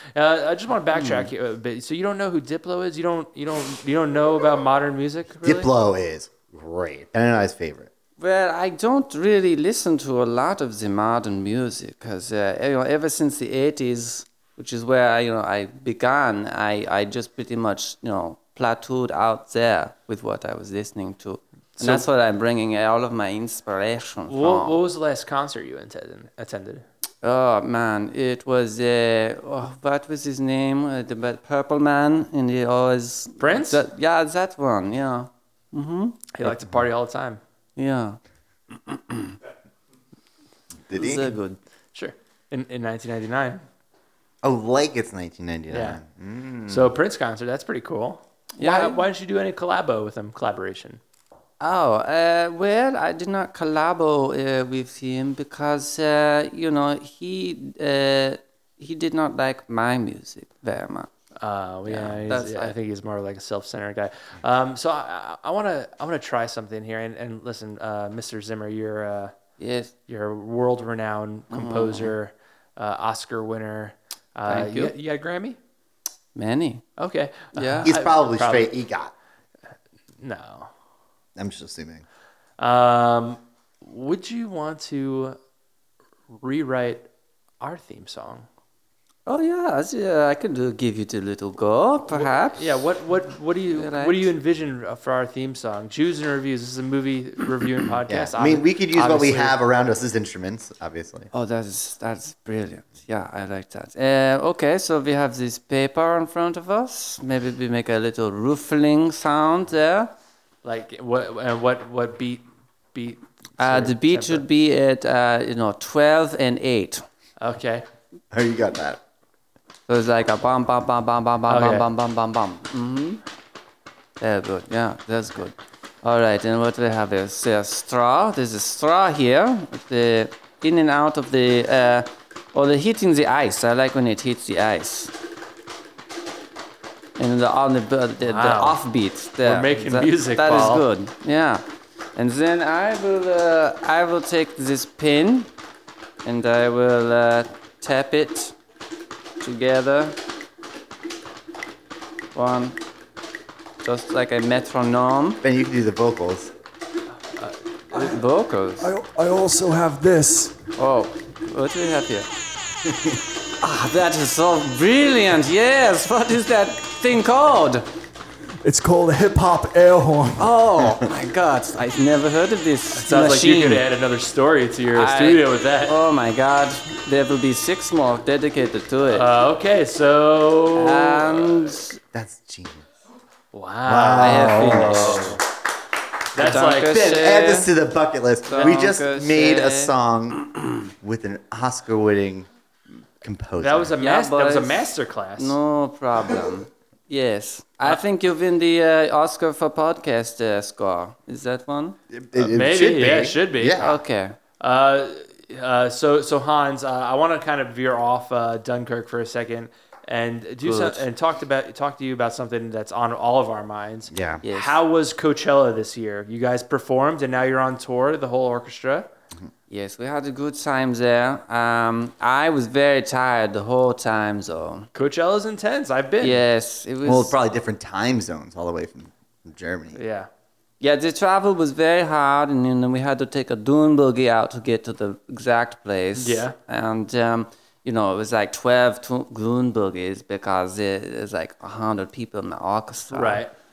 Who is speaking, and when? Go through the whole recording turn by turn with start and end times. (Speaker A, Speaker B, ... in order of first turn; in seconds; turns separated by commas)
Speaker A: 0.1-5.7, Speaker B: 0.9-1.3, Speaker C: 5.4-7.9, Speaker B: 8.2-24.8, Speaker A: 21.8-22.1, Speaker A: 24.3-26.8, Speaker B: 27.2-36.3, Speaker A: 33.4-33.8, Speaker A: 36.3-37.4, Speaker C: 36.5-36.8, Speaker B: 37.8-38.2, Speaker B: 38.7-39.4, Speaker C: 40.9-41.4, Speaker B: 40.9-41.6, Speaker A: 41.9-43.6, Speaker C: 44.4-46.9, Speaker A: 45.7-46.0, Speaker A: 46.7-51.0, Speaker B: 48.5-49.0, Speaker B: 51.6-61.1, Speaker A: 61.4-69.3, Speaker B: 61.9-62.7, Speaker B: 69.6-69.9, Speaker A: 70.1-75.6, Speaker B: 71.5-72.1, Speaker B: 74.5-74.9, Speaker B: 76.3-76.8, Speaker A: 77.0-78.7, Speaker B: 77.5-77.9, Speaker C: 77.8-79.1, Speaker A: 80.2-80.7, Speaker C: 81.3-82.0, Speaker A: 82.6-85.4, Speaker A: 86.3-87.0, Speaker A: 87.6-88.5, Speaker B: 89.2-92.8, Speaker A: 92.1-99.5, Speaker B: 93.7-94.3, Speaker C: 98.0-101.3, Speaker B: 101.3-110.1, Speaker A: 110.6-114.4, Speaker B: 113.6-117.0, Speaker A: 117.4-117.8, Speaker C: 118.3-119.0, Speaker B: 119.9-123.2, Speaker A: 121.5-121.9, Speaker B: 124.2-135.1, Speaker B: 137.2-141.6, Speaker A: 138.2-138.8, Speaker A: 139.4-140.8, Speaker B: 142.2-145.5, Speaker B: 146.2-148.5, Speaker B: 149.4-150.2, Speaker B: 152.3-152.8, Speaker B: 153.8-155.4, Speaker C: 155.4-156.5, Speaker D: 157.9-158.2, Speaker B: 157.9-158.9, Speaker D: 158.8-160.6, Speaker B: 160.8-162.3, Speaker C: 162.8-163.2, Speaker B: 163.6-167.9, Speaker D: 168.6-170.5, Speaker B: 170.4-173.8, Speaker A: 172.9-176.0, Speaker B: 174.9-179.3, Speaker A: 179.1-181.8, Speaker B: 180.7-182.0, Speaker C: 182.1-182.8, Speaker A: 183.5-185.4, Speaker C: 183.8-185.4, Speaker B: 184.2-185.4, Speaker A: 186.3-187.1, Speaker B: 186.3-187.7, Speaker C: 186.6-190.4, Speaker B: 188.5-189.9, Speaker A: 188.6-188.9, Speaker C: 191.0-192.5, Speaker C: 193.2-193.9, Speaker A: 193.6-195.6, Speaker B: 194.0-202.0, Speaker C: 202.1-204.0, Speaker A: 202.4-203.9, Speaker B: 203.8-204.4, Speaker A: 204.6-219.1, Speaker B: 210.6-211.0, Speaker C: 214.1-214.4, Speaker B: 214.4-214.8, Speaker B: 219.7-224.9, Speaker A: 224.9-226.4, Speaker B: 226.2-227.3, Speaker C: 227.0-230.0, Speaker A: 229.9-230.3, Speaker B: 230.8-243.4, Speaker A: 236.2-236.5, Speaker A: 243.1-243.5